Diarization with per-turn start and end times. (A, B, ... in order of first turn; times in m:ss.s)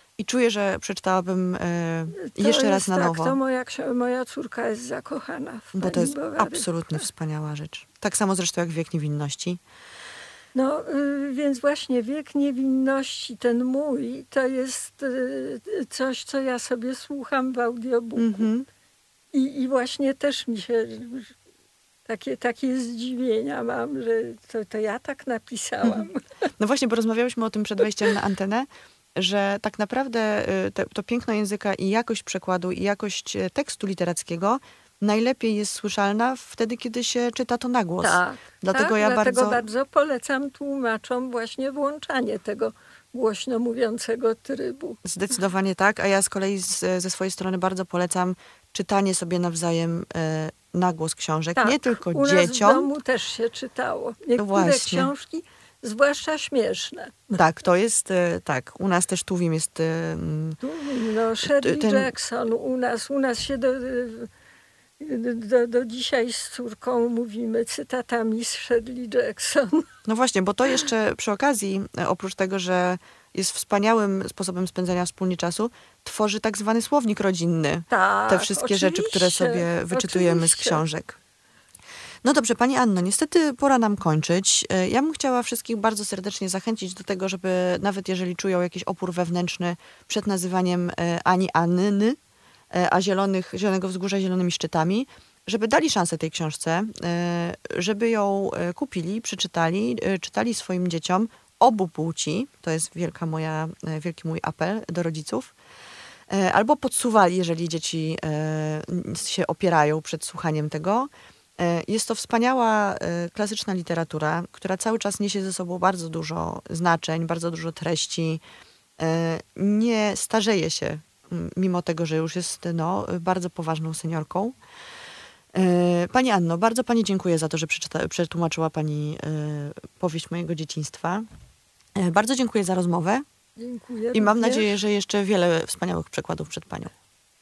0:00.2-0:03.4 A
0:02.2-0:07.1 B
0:05.7-0:09.6 A
0:10.5-0:18.5 B
0:18.2-0:18.7 A
0:19.3-0:21.3 B
0:22.0-0:26.4 B
0:25.8-0:39.6 A
0:38.0-0:45.0 B
0:45.0-0:52.9 A
0:51.6-0:57.2 B
0:54.4-0:55.1 A
0:57.3-1:00.6 A
1:00.6-1:04.3 B
1:01.4-1:02.1 A
1:05.0-1:09.9 B
1:10.0-1:21.2 A
1:17.9-1:20.8 B
1:22.2-1:32.2 A
1:32.7-1:45.5 A
1:46.3-1:58.4 A
1:59.0-2:04.6 A
2:05.5-2:11.2 A
2:11.9-2:13.2 A
2:13.6-2:14.8 B
2:14.1-2:16.9 A